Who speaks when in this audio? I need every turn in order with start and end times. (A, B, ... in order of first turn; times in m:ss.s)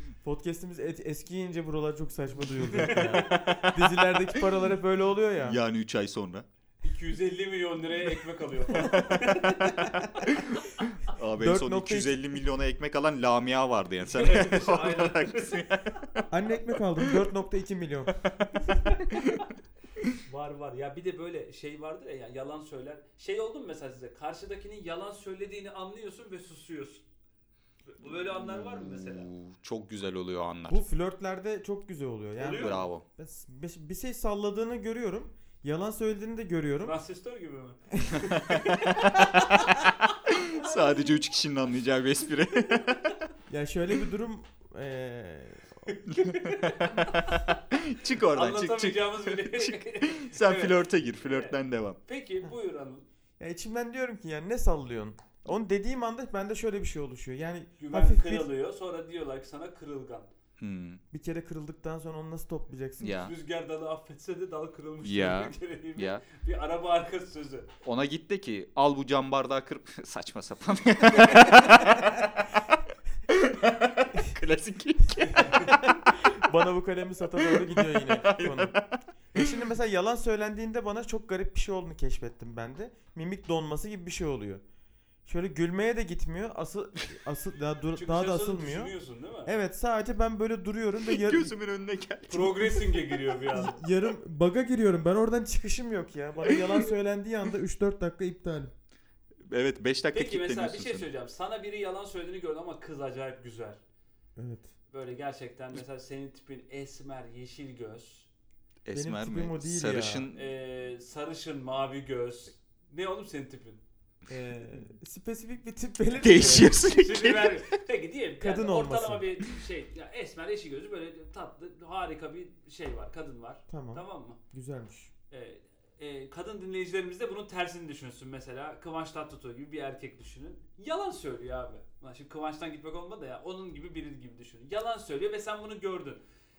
0:00.2-0:05.6 A
0:02.7-0:03.6 B
0:03.0-0:03.6 C
0:05.4-0:06.5 C
0:06.8-0:10.4 B
0:08.9-0:09.3 C
0:10.3-0:16.2 C
0:11.4-0:12.2 A
0:14.1-0:15.7 B
0:16.3-0:18.2 A
0:18.7-0:19.4 B
0:19.1-0:19.4 C
0:20.3-0:27.0 B
0:27.9-0:29.3 B
0:28.4-0:30.8 C
0:30.7-0:37.0 A
0:32.4-0:32.9 B
0:32.5-0:33.0 C
0:36.8-0:40.7 B
0:38.2-0:39.6 C
0:40.3-0:43.2 C
0:43.5-0:45.9 A
0:45.9-0:53.1 B
0:46.1-0:52.0 C
0:53.4-0:58.5 A
0:57.8-1:00.3 B
1:00.6-1:01.0 C
1:01.1-1:03.2 A
1:03.0-1:03.3 C
1:03.1-1:07.7 B
1:05.0-1:06.2 C
1:07.8-1:12.2 C
1:13.3-1:15.8 C
1:15.2-1:15.7 B
1:15.7-1:18.7 A
1:17.4-1:19.5 C
1:19.3-1:24.6 A
1:25.3-1:28.9 A
1:27.9-1:29.6 B
1:29.4-1:31.5 A
1:31.1-1:33.2 C
1:32.3-1:33.8 B
1:33.5-1:38.7 A
1:39.5-1:41.1 C
1:40.1-1:43.8 B
1:44.4-1:44.7 A
1:44.9-1:48.3 B
1:48.8-1:50.5 C
1:48.9-1:50.3 A
1:50.3-1:53.8 B
1:54.3-1:56.8 A
1:56.2-2:04.4 B
1:56.2-1:57.6 C
1:58.4-1:59.3 A
2:03.7-2:05.1 A
2:05.3-2:16.2 B